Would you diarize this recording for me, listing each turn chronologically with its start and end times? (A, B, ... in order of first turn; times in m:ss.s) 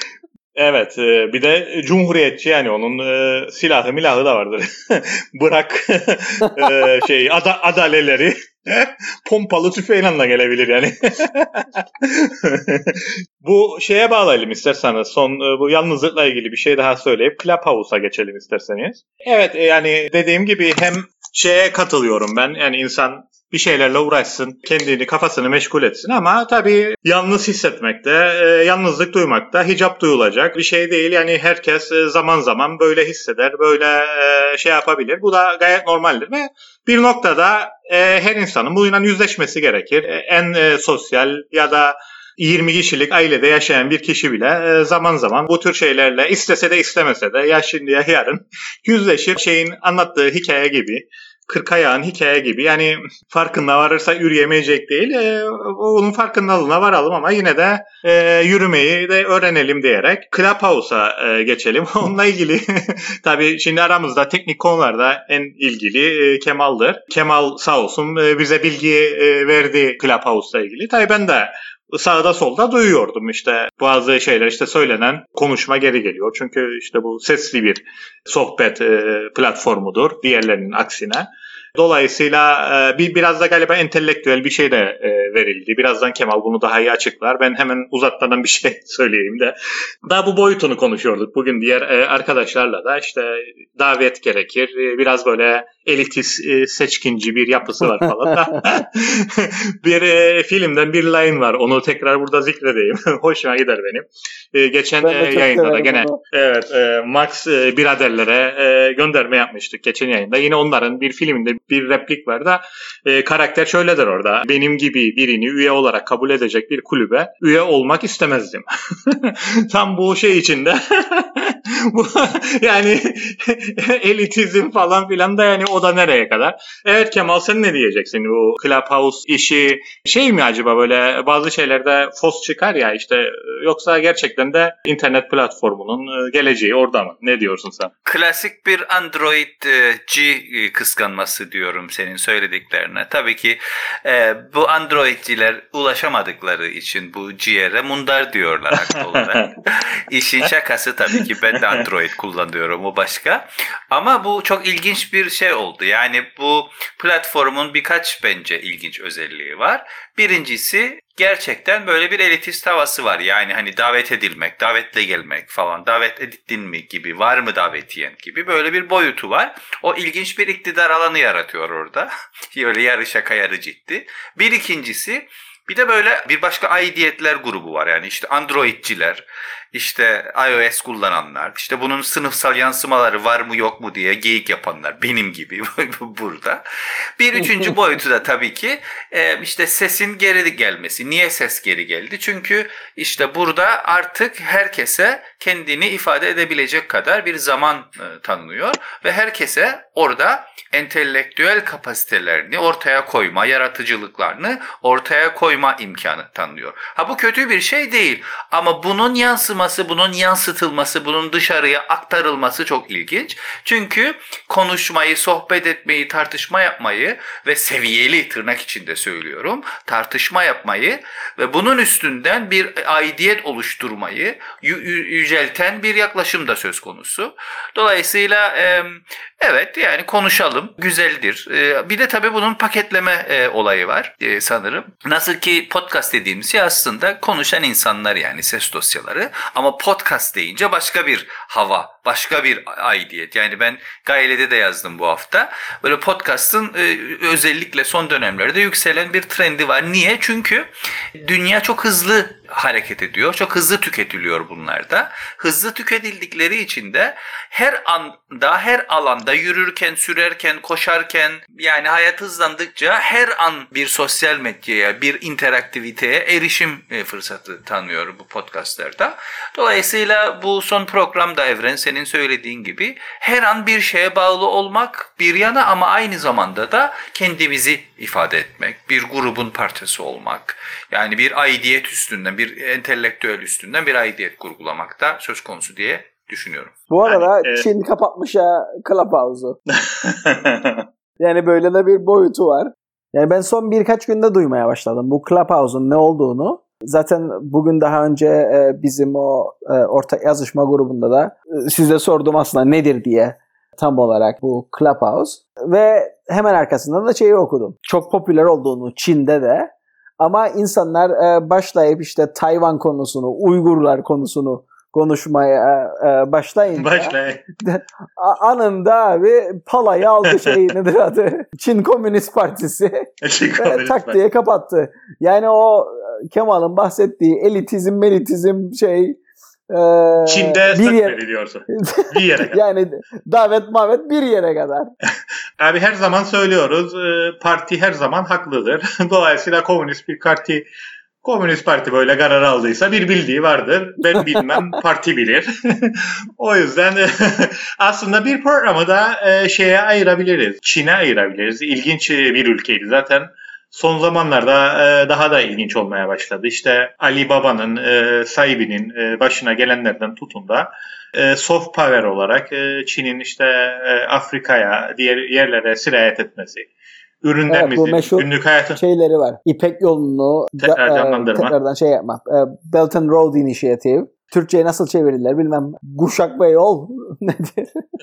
0:00.5-2:17.9 A
1:45.0-1:46.2 B
2:18.0-3:06.6 C
2:28.7-2:29.5 A
2:31.6-2:31.8 A
3:07.2-4:46.8 C
4:46.9-4:49.6 B
4:47.0-4:47.6 A
4:49.9-4:50.8 A
4:51.2-5:29.2 B
5:16.7-5:17.4 A
5:20.2-5:20.5 A
5:23.2-5:24.2 A
5:29.7-5:31.2 B
5:30.3-5:32.6 A
5:31.7-5:34.9 B
5:35.6-5:40.6 A
5:41.2-6:06.7 A
6:07.2-6:08.8 A
6:07.5-6:17.8 B
6:10.6-6:11.5 A